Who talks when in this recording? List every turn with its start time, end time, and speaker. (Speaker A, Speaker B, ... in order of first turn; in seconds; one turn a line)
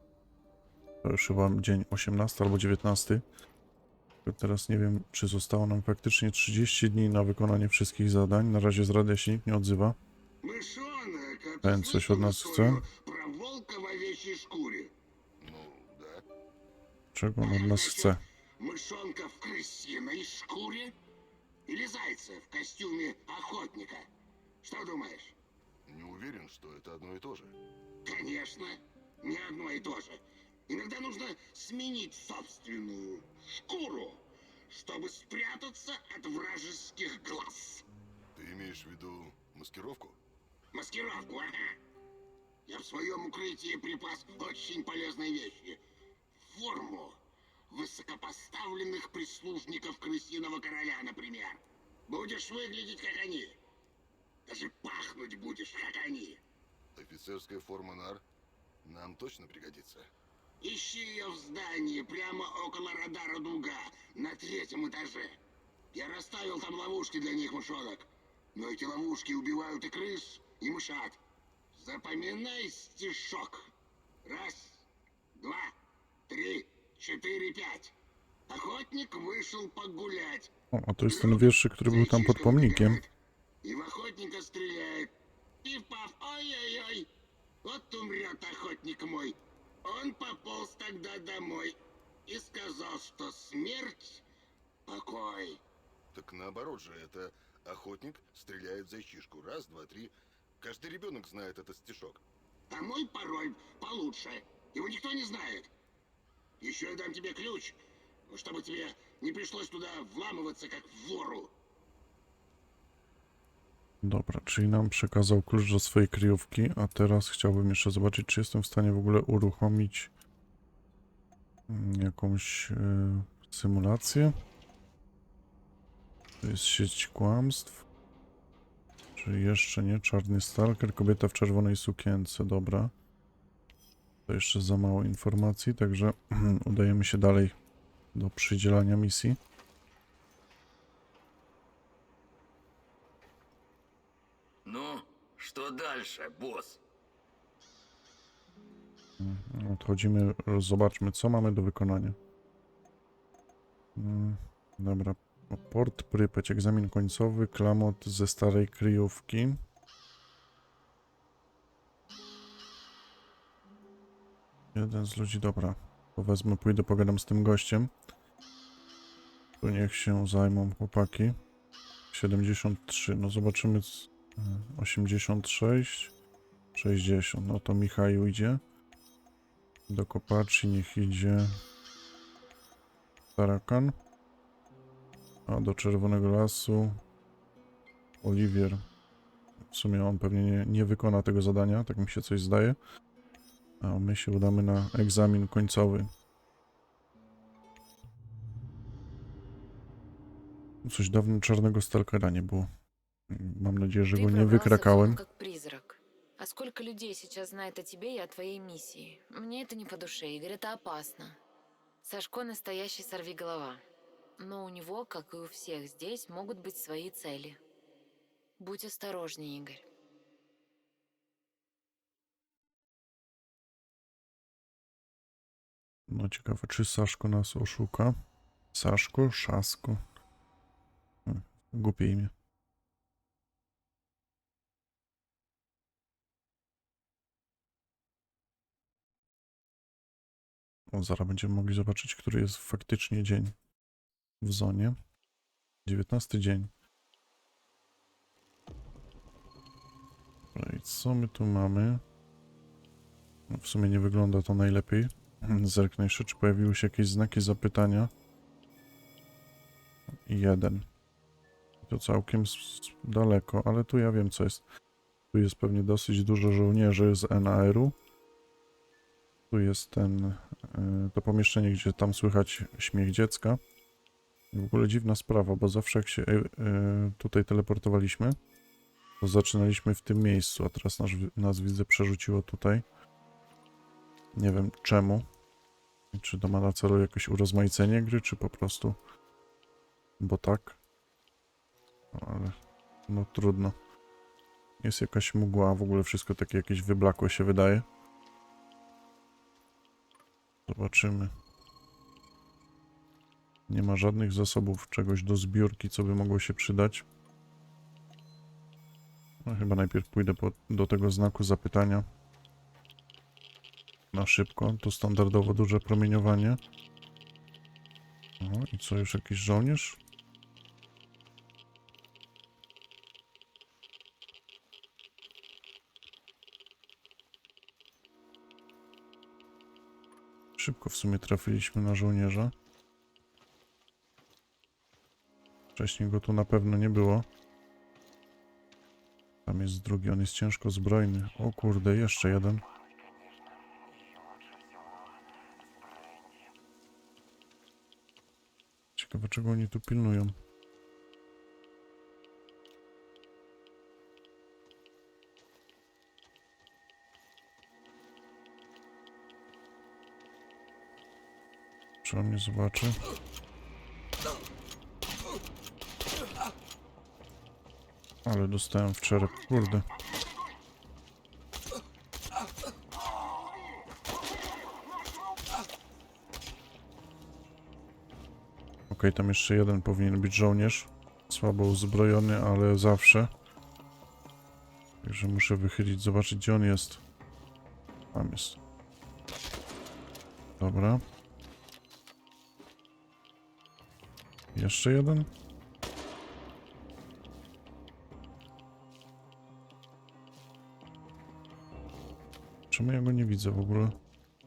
Speaker A: 1.0-3.2
Speaker A: 4.2-10.0
Speaker B: 10.4-14.9
Speaker A: 11.6-12.8
Speaker C: 15.4-16.2
Speaker A: 17.1-18.2
Speaker B: 17.4-20.9
Speaker B: 21.7-24.1
Speaker B: 24.6-25.4
Speaker C: 25.9-27.6
Speaker B: 28.0-37.9
Speaker C: 38.3-40.2
Speaker B: 40.7-41.8
Speaker B: 42.6-45.8
Speaker B: 46.4-47.2
Speaker B: 47.7-53.6
Speaker B: 54.5-56.4
Speaker C: 56.9-58.2
Speaker C: 58.8-60.1
Speaker B: 60.6-65.4
Speaker B: 65.9-71.2
Speaker B: 71.7-73.7
Speaker B: 74.2-75.7
Speaker B: 76.3-77.9
Speaker B: 78.5-80.5
Speaker A: 80.7-83.0
Speaker B: 81.1-83.1
Speaker B: 83.6-85.1
Speaker B: 85.6-87.1
Speaker B: 87.6-94.2
Speaker B: 94.8-95.6
Speaker C: 96.1-102.2
Speaker B: 102.7-105.7
Speaker B: 106.6-107.8
Speaker B: 108.3-111.5
Speaker A: 114.0-120.1
Speaker A: 121.7-124.3
Speaker A: 126.4-127.8
Speaker A: 129.2-132.9
Speaker A: 134.3-137.5
Speaker A: 138.1-139.4
Speaker D: 144.6-146.8
Speaker A: 149.2-152.2
Speaker A: 153.9-159.6
Speaker A: 164.7-167.9
Speaker A: 169.6-171.3
Speaker A: 172.1-176.1
Speaker A: 176.7-178.6
Speaker A: 179.9-181.6
Speaker A: 183.3-183.9
Speaker A: 185.5-187.0
Speaker A: 188.2-188.8
Speaker A: 189.6-192.8
Speaker A: 193.8-196.1
Speaker A: 200.8-202.7
Speaker A: 203.3-205.2
Speaker E: 204.1-211.4
Speaker E: 212.0-213.8
Speaker E: 214.4-217.6
Speaker E: 218.6-219.8
Speaker A: 226.1-228.1
Speaker A: 228.7-230.0
Speaker A: 231.2-232.3
Speaker A: 240.9-243.6
Speaker A: 244.4-244.9
Speaker A: 245.8-246.7
Speaker A: 250.5-252.0
Speaker A: 253.5-258.1
Speaker A: 260.2-260.9
Speaker A: 261.8-264.6
Speaker A: 265.3-267.9
Speaker A: 269.5-273.6
Speaker A: 274.5-278.4
Speaker A: 279.2-282.8
Speaker A: 284.4-285.3
Speaker A: 286.1-288.9
Speaker A: 290.2-290.8
Speaker A: 292.1-293.7
Speaker A: 294.8-297.9
Speaker A: 300.7-301.3
Speaker A: 303.7-307.1
Speaker A: 309.4-312.0
Speaker A: 314.1-316.6
Speaker A: 318.4-320.0
Speaker A: 330.6-332.5
Speaker A: 335.7-337.2
Speaker A: 339.4-342.6
Speaker A: 348.9-350.3
Speaker A: 362.0-363.0
Speaker A: 368.2-369.9
Speaker A: 378.9-383.3
Speaker A: 385.0-387.0
Speaker A: 388.1-388.6
Speaker A: 390.6-391.0
Speaker A: 394.5-395.3
Speaker A: 402.7-403.9